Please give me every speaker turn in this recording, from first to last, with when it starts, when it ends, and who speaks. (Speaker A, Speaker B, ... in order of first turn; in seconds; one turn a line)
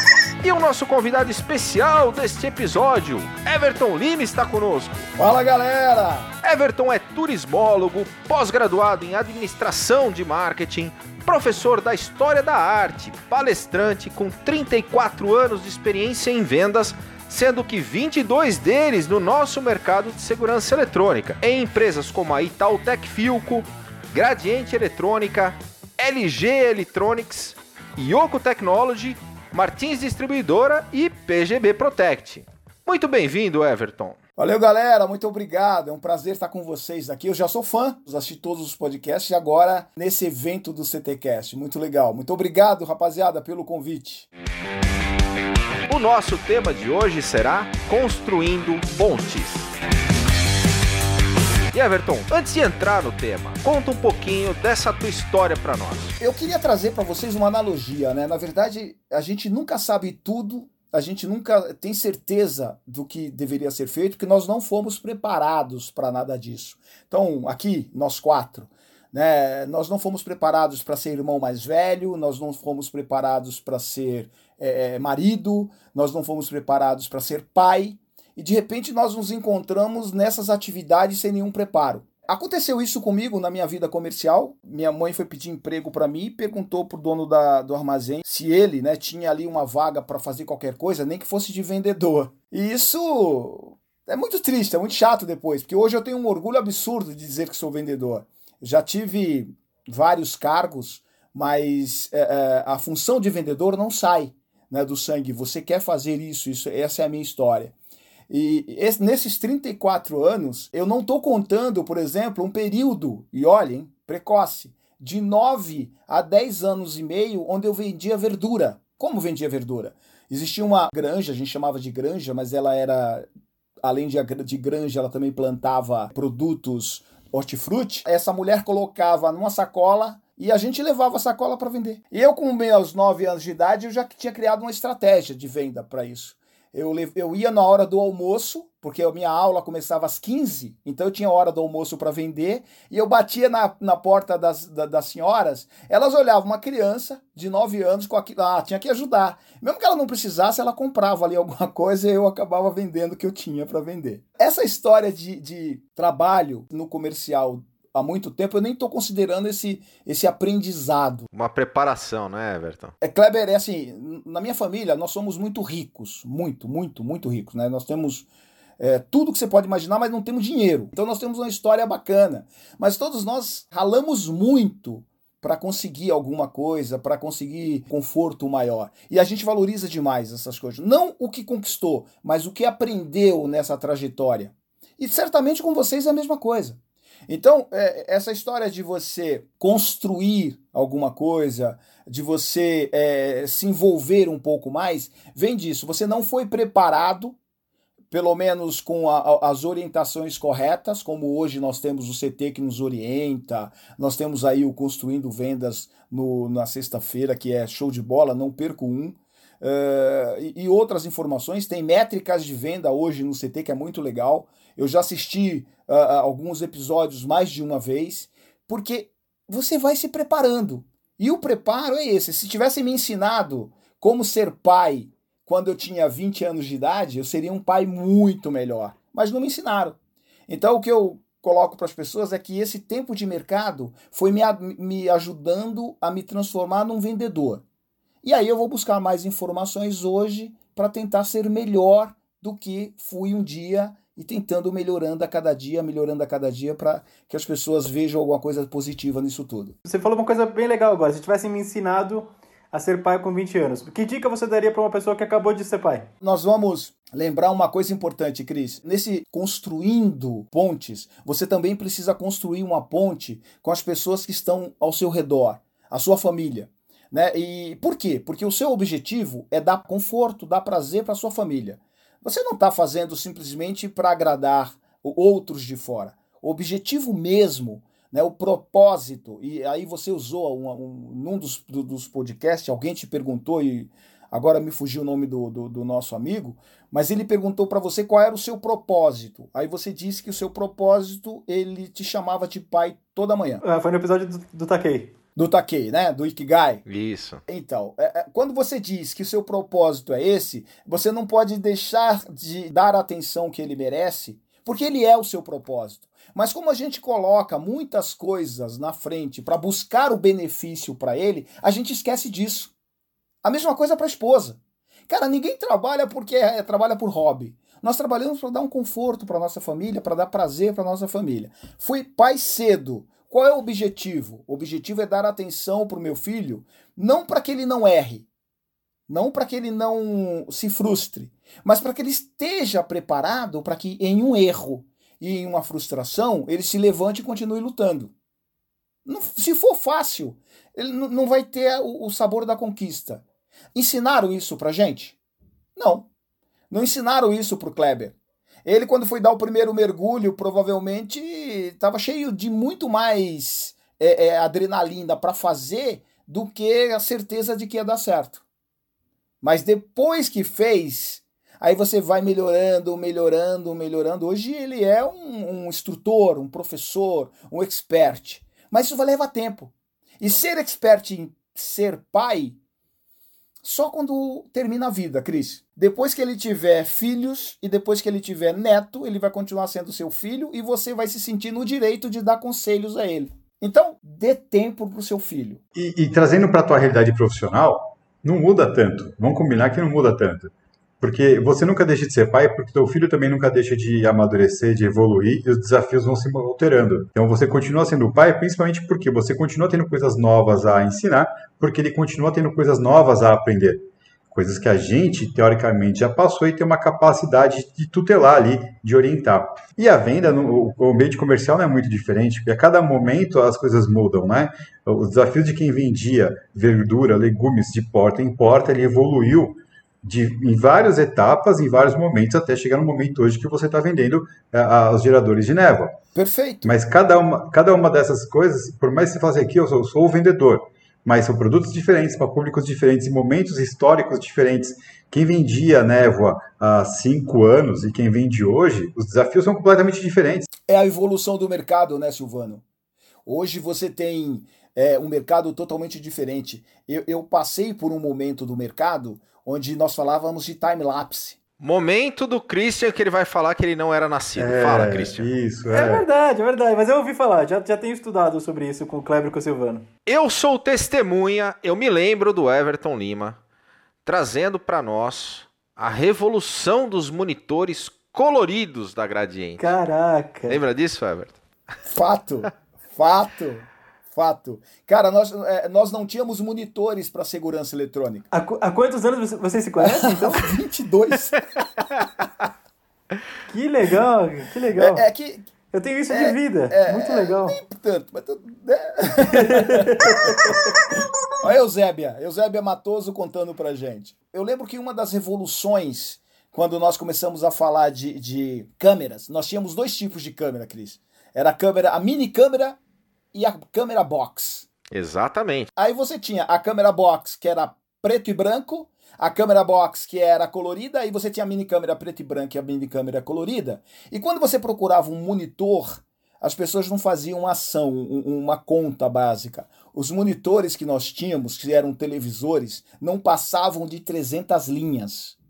Speaker A: 0.4-5.1
Speaker B: 5.2-6.3
Speaker A: 6.4-34.2
Speaker B: 34.4-44.3
Speaker A: 45.9-49.7
Speaker A: 51.7-56.1
Speaker B: 56.2-107.7
Speaker B: 108.3-123.2
Speaker B: 123.8-161.3
Speaker A: 161.3-162.9
Speaker B: 163.0-168.3
Speaker B: 168.8-197.4
Speaker B: 198.1-237.6
Speaker B: 238.2-249.7
Speaker C: 249.8-256.1
Speaker B: 256.2-293.6
Speaker C: 293.6-295.1
Speaker B: 295.4-296.8
Speaker A: 296.9-297.4
Speaker B: 297.5-312.7
Speaker B: 313.4-328.3
Speaker B: 329.1-338.1
Speaker B: 339.1-343.2
Speaker B: 343.7-345.2
Speaker B: 345.8-346.1
Speaker B: 346.7-358.4
Speaker B: 359.4-372.6
Speaker B: 373.6-385.6
Speaker D: 385.7-426.0
Speaker B: 426.1-426.7
Speaker D: 426.6-440.5
Speaker B: 440.7-442.6
Speaker B: 443.2-451.4
Speaker A: 451.6-455.3
Speaker D: 454.4-456.0
Speaker C: 455.7-459.9
Speaker A: 460.1-463.4
Speaker A: 464.0-469.6
Speaker C: 469.6-470.6
Speaker A: 470.5-471.4
Speaker B: 471.9-478.3
Speaker C: 478.3-480.4
Speaker B: 479.8-481.4
Speaker C: 483.5-485.0
Speaker B: 484.7-485.5
Speaker C: 485.7-487.6
Speaker B: 486.1-490.6
Speaker C: 489.4-490.5
Speaker B: 491.4-502.8
Speaker B: 503.3-504.7
Speaker A: 504.9-505.7
Speaker B: 505.8-525.4